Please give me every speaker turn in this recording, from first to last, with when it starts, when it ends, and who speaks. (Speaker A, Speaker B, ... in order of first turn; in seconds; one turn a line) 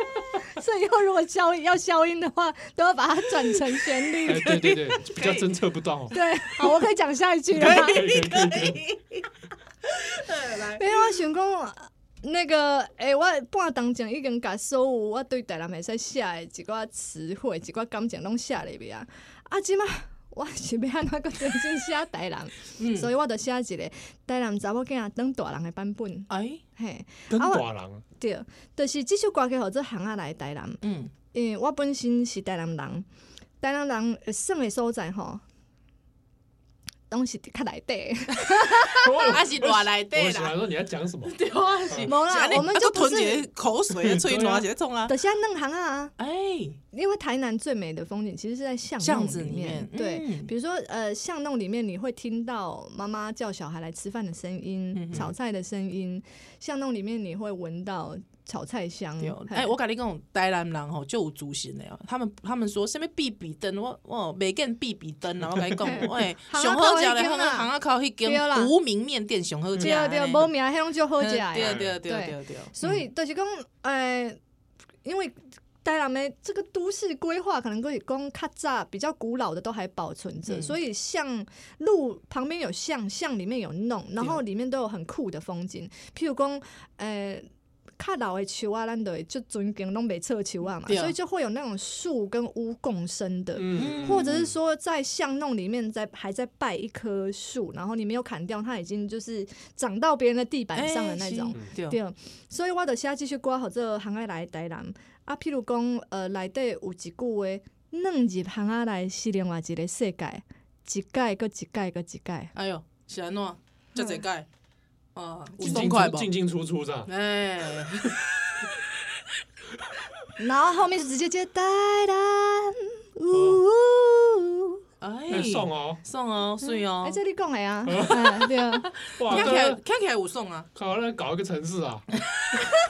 Speaker A: 0.5-4.6
Speaker B: 3.5-5.5
Speaker C: 4.3-6.2
Speaker A: 6.1-8.1
Speaker B: 7.5-9.3
Speaker C: 7.6-8.8
Speaker B: 9.8-11.2
Speaker A: 10.8-33.0
Speaker B: 22.8-23.1
Speaker B: 26.3-26.6
Speaker C: 27.3-28.0
Speaker B: 30.8-31.1
Speaker A: 33.6-35.4
Speaker A: 37.1-39.3
Speaker C: 38.9-42.1
Speaker B: 39.2-40.5
Speaker B: 41.2-45.1
Speaker A: 42.0-43.5
Speaker C: 44.0-44.7
Speaker A: 45.1-46.1
Speaker B: 46.2-46.8
Speaker A: 46.9-59.7
Speaker B: 49.0-50.5
Speaker B: 54.9-55.3
Speaker B: 59.2-70.5
Speaker A: 65.8-67.7
Speaker A: 68.2-68.7
Speaker A: 69.8-74.4
Speaker B: 71.2-73.0
Speaker C: 71.6-72.0
Speaker A: 75.0-87.5
Speaker B: 80.5-80.8
Speaker A: 88.0-112.5
Speaker B: 90.9-91.2
Speaker C: 93.6-94.5
Speaker B: 93.8-94.3
Speaker B: 100.8-102.0
Speaker B: 112.5-114.5
Speaker B: 115.2-116.3
Speaker C: 115.6-117.1
Speaker B: 117.1-118.8
Speaker A: 120.4-124.8
Speaker C: 123.3-123.6
Speaker B: 125.0-127.2
Speaker C: 125.3-126.0
Speaker A: 126.6-129.5
Speaker C: 127.9-128.6
Speaker C: 129.1-129.8
Speaker B: 129.2-130.7
Speaker C: 130.8-132.1
Speaker B: 132.3-132.6